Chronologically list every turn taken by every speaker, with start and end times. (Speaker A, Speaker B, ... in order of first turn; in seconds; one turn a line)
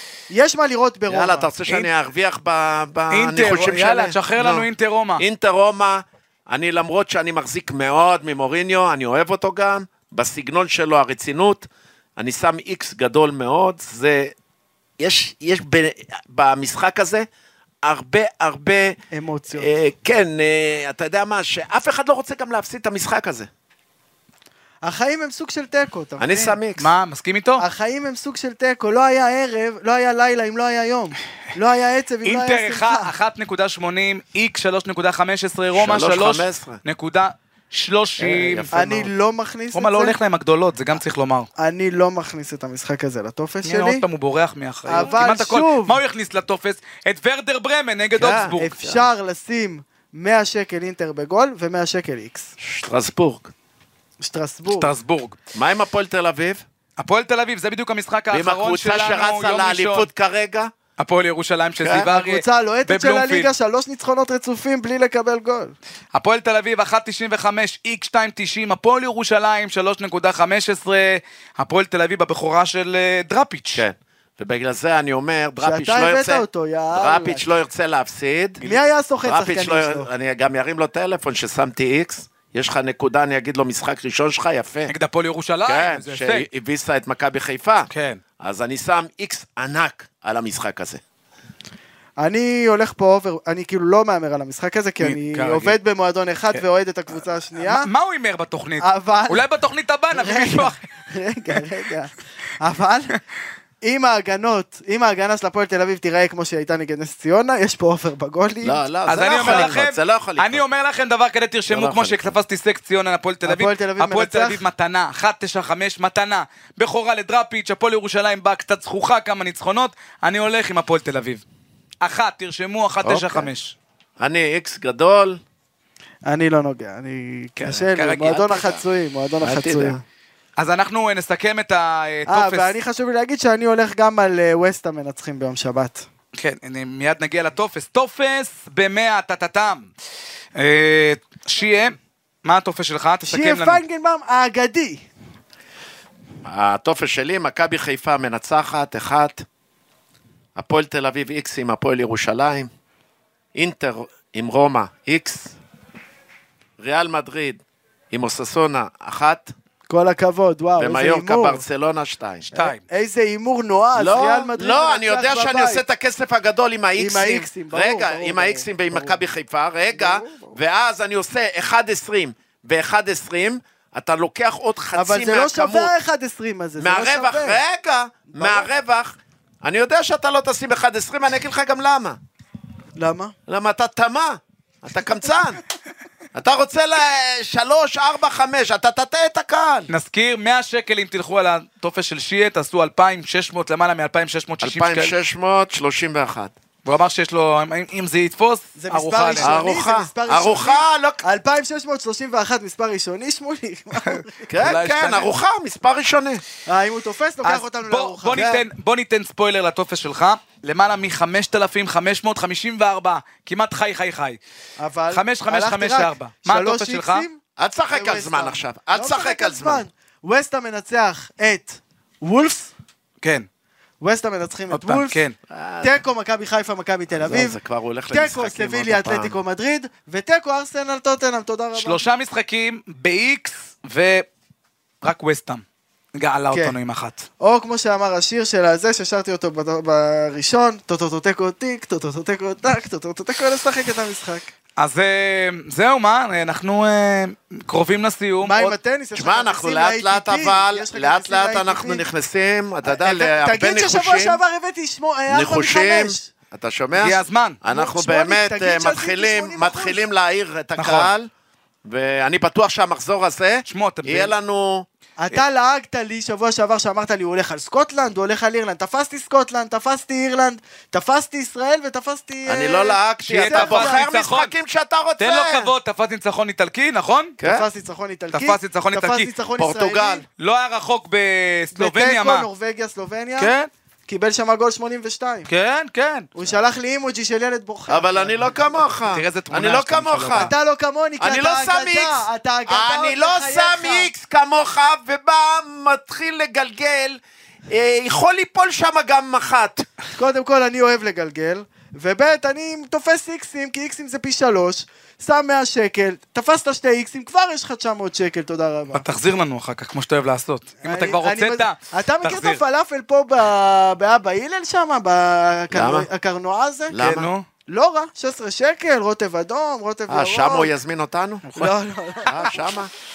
Speaker A: 0.3-1.5
Speaker B: 1.1-4.7
Speaker C: 3.1-5.2
Speaker B: 5.2-11.7
Speaker B: 12.2-14.3
Speaker B: 15.0-17.3
Speaker B: 17.8-19.0
Speaker A: 19.1-19.7
Speaker B: 19.6-23.5
Speaker A: 24.8-26.6
Speaker B: 26.2-26.9
Speaker C: 26.8-27.6
Speaker A: 27.6-33.1
Speaker C: 32.2-38.8
Speaker B: 35.8-36.8
Speaker B: 38.2-39.1
Speaker A: 38.7-40.2
Speaker C: 39.7-41.5
Speaker A: 41.6-44.0
Speaker C: 43.6-48.7
Speaker A: 44.9-46.0
Speaker B: 48.2-49.0
Speaker A: 48.5-52.5
Speaker B: 52.6-53.5
Speaker A: 54.2-54.9
Speaker C: 54.7-55.4
Speaker B: 55.5-56.6
Speaker C: 57.0-60.1
Speaker B: 58.3-60.7
Speaker C: 61.0-63.5
Speaker A: 62.0-65.8
Speaker C: 66.1-73.8
Speaker B: 73.8-78.7
Speaker A: 75.6-77.5
Speaker A: 78.6-80.1
Speaker B: 79.2-84.9
Speaker C: 84.9-86.5
Speaker B: 85.7-87.9
Speaker C: 87.9-88.2
Speaker B: 88.4-91.0
Speaker A: 92.2-97.9
Speaker C: 95.0-95.8
Speaker C: 97.6-100.8
Speaker A: 98.8-99.4
Speaker A: 100.1-103.1
Speaker A: 103.8-108.8
Speaker B: 108.6-110.6
Speaker C: 109.1-121.4
Speaker A: 109.4-109.7
Speaker B: 111.7-112.4
Speaker A: 113.5-114.6
Speaker C: 122.0-123.8
Speaker B: 123.0-123.5
Speaker B: 124.2-125.4
Speaker A: 126.3-130.0
Speaker C: 127.6-128.8
Speaker B: 129.4-130.0
Speaker C: 130.6-132.7
Speaker A: 132.3-136.1
Speaker C: 136.3-139.9
Speaker C: 140.6-143.8
Speaker A: 143.2-145.1
Speaker B: 146.4-149.4
Speaker B: 150.6-152.7
Speaker B: 153.6-155.5
Speaker B: 156.8-157.6
Speaker B: 158.1-159.5
Speaker A: 159.9-161.6
Speaker B: 160.8-162.5
Speaker C: 162.5-162.8
Speaker A: 162.6-165.8
Speaker B: 163.9-175.9
Speaker A: 167.0-169.2
Speaker A: 169.9-170.6
Speaker A: 174.9-177.6
Speaker B: 176.8-182.2
Speaker A: 178.3-178.7
Speaker A: 183.0-183.3
Speaker B: 183.5-185.6
Speaker B: 186.3-189.9
Speaker C: 189.9-195.1
Speaker B: 194.6-196.5
Speaker C: 196.8-199.6
Speaker A: 198.8-204.5
Speaker B: 199.4-201.2
Speaker C: 204.0-205.3
Speaker B: 204.5-206.4
Speaker A: 206.7-208.6
Speaker C: 207.4-214.4
Speaker B: 208.3-208.6
Speaker A: 214.8-217.4
Speaker C: 215.1-217.3
Speaker B: 217.6-219.8
Speaker A: 217.9-222.7
Speaker C: 223.2-223.5
Speaker A: 224.0-225.2
Speaker C: 224.7-225.3
Speaker B: 225.5-225.9
Speaker A: 225.8-227.6
Speaker B: 227.1-229.4
Speaker A: 228.1-232.0
Speaker C: 231.8-234.3
Speaker C: 235.0-235.6
Speaker C: 236.2-237.3
Speaker A: 236.5-236.8
Speaker A: 237.4-244.5
Speaker C: 244.8-248.8
Speaker A: 248.4-252.0
Speaker B: 249.2-254.4
Speaker A: 252.8-256.3
Speaker B: 255.3-261.3
Speaker C: 257.0-257.6
Speaker A: 257.7-260.0
Speaker C: 260.8-261.1
Speaker B: 261.9-264.9
Speaker C: 263.7-264.3
Speaker A: 265.2-274.1
Speaker B: 272.5-275.7
Speaker C: 273.3-274.5
Speaker C: 275.2-277.4
Speaker B: 277.4-277.7
Speaker A: 277.4-280.2
Speaker C: 278.3-279.3
Speaker B: 279.6-280.2
Speaker C: 280.4-282.5
Speaker A: 281.8-283.5
Speaker C: 283.4-283.7
Speaker A: 284.1-285.5
Speaker C: 285.5-286.3
Speaker A: 286.4-288.9
Speaker B: 287.9-290.5
Speaker C: 289.1-290.5
Speaker A: 290.4-294.1
Speaker B: 291.2-299.9
Speaker A: 300.2-309.0
Speaker C: 308.9-312.6
Speaker A: 310.8-317.0
Speaker B: 315.7-316.1
Speaker B: 316.9-317.3
Speaker C: 316.9-317.5
Speaker A: 317.7-320.7
Speaker B: 320.1-321.5
Speaker C: 321.5-321.7
Speaker A: 321.6-322.6
Speaker B: 322.2-322.9